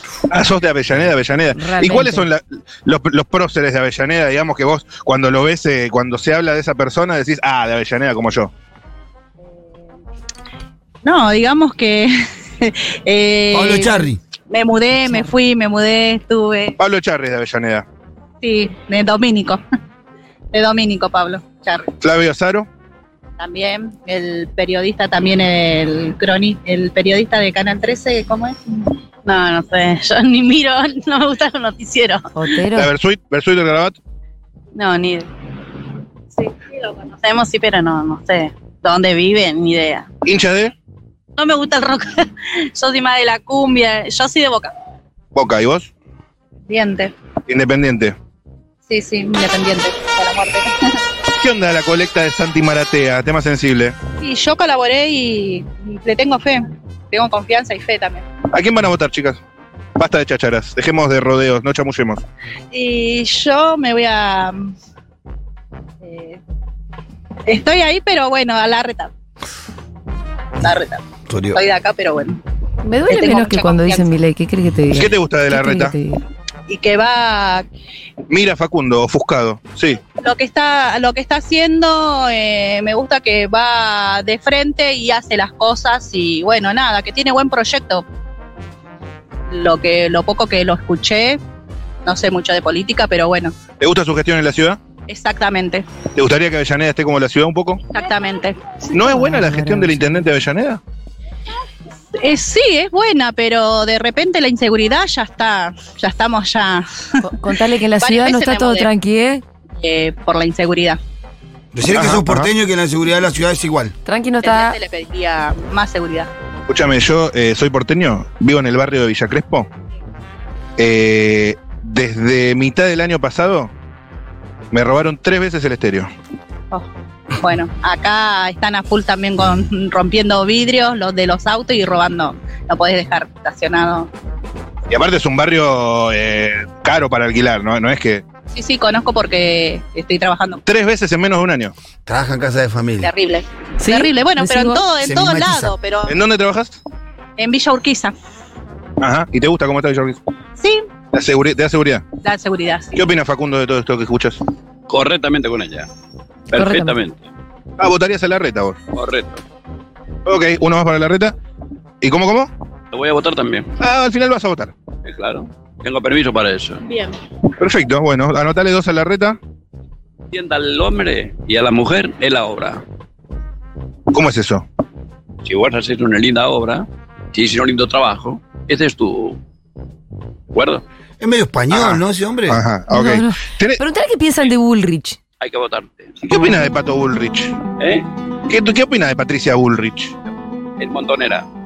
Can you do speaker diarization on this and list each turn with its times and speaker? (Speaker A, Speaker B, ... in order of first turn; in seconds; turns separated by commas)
Speaker A: 0.3-8.5, Speaker B: 1.6-2.3, Speaker C: 11.0-16.8, Speaker D: 13.5-14.2, Speaker A: 16.8-17.9, Speaker C: 18.4-19.6, Speaker C: 20.5-21.9, Speaker A: 22.0-22.7, Speaker C: 23.4-32.3, Speaker B: 32.3-32.9, Speaker A: 32.7-34.0, Speaker C: 34.8-35.3, Speaker C: 36.4-40.1, Speaker A: 40.2-40.7, Speaker C: 41.4-44.7, Speaker A: 45.4-45.9, Speaker C: 46.7-47.1, Speaker A: 47.5-48.2, Speaker C: 48.9-51.0, Speaker A: 51.4-54.0, Speaker C: 54.2-58.2, Speaker A: 58.5-59.4, Speaker A: 60.0-62.2, Speaker C: 62.7-64.7, Speaker C: 66.0-66.4, Speaker C: 67.5-69.1, Speaker C: 70.6-71.0, Speaker D: 71.3-71.6, Speaker C: 71.5-72.4, Speaker B: 72.8-76.2, Speaker C: 73.1-74.1, Speaker A: 75.0-76.0, Speaker C: 76.7-77.7, Speaker A: 78.3-80.0, Speaker C: 80.2-88.0, Speaker C: 89.5-91.4, Speaker C: 92.0-93.5, Speaker A: 93.8-94.8, Speaker C: 95.1-95.8, Speaker A: 96.2-97.8, Speaker C: 97.9-98.6, Speaker A: 98.9-100.8, Speaker B: 98.9-100.3, Speaker C: 102.2-106.9, Speaker B: 107.2-109.4, Speaker C: 108.0-108.9, Speaker C: 109.8-111.0, Speaker D: 111.7-114.0, Speaker A: 111.9-112.5, Speaker B: 114.1-114.8, Speaker C: 114.4-116.3, Speaker A: 116.7-119.7, Speaker A: 120.8-123.7, Speaker A: 124.7-126.1, Speaker C: 127.4-134.1, Speaker A: 134.9-138.2, Speaker C: 138.5-140.6, Speaker A: 140.7-141.7, Speaker D: 142.1-143.1, Speaker C: 143.0-146.1, Speaker B: 143.8-144.8, Speaker D: 145.0-145.8, Speaker A: 146.1-146.8, Speaker C: 147.4-148.1, Speaker A: 149.0-150.2, Speaker C: 150.6-150.9, Speaker A: 151.1-152.1, Speaker C: 152.2-153.0, Speaker A: 152.9-154.4, Speaker E: 154.9-155.9, Speaker E: 156.5-157.2, Speaker B: 156.6-157.0, Speaker A: 157.8-158.8, Speaker E: 158.9-159.4, Speaker A: 160.3-161.3, Speaker A: 162.0-162.5, Speaker E: 162.9-163.7, Speaker A: 163.8-164.7, Speaker E: 165.1-166.8, Speaker C: 166.9-167.1, Speaker A: 167.6-169.4, Speaker E: 170.3-172.8, Speaker A: 174.1-174.7, Speaker E: 175.4-179.4, Speaker E: 180.5-180.8, Speaker D: 181.2-182.6, Speaker A: 181.7-183.8, Speaker B: 182.9-185.2, Speaker E: 185.4-186.1, Speaker A: 186.2-187.6, Speaker E: 187.8-188.1, Speaker A: 188.5-190.1, Speaker E: 190.8-191.5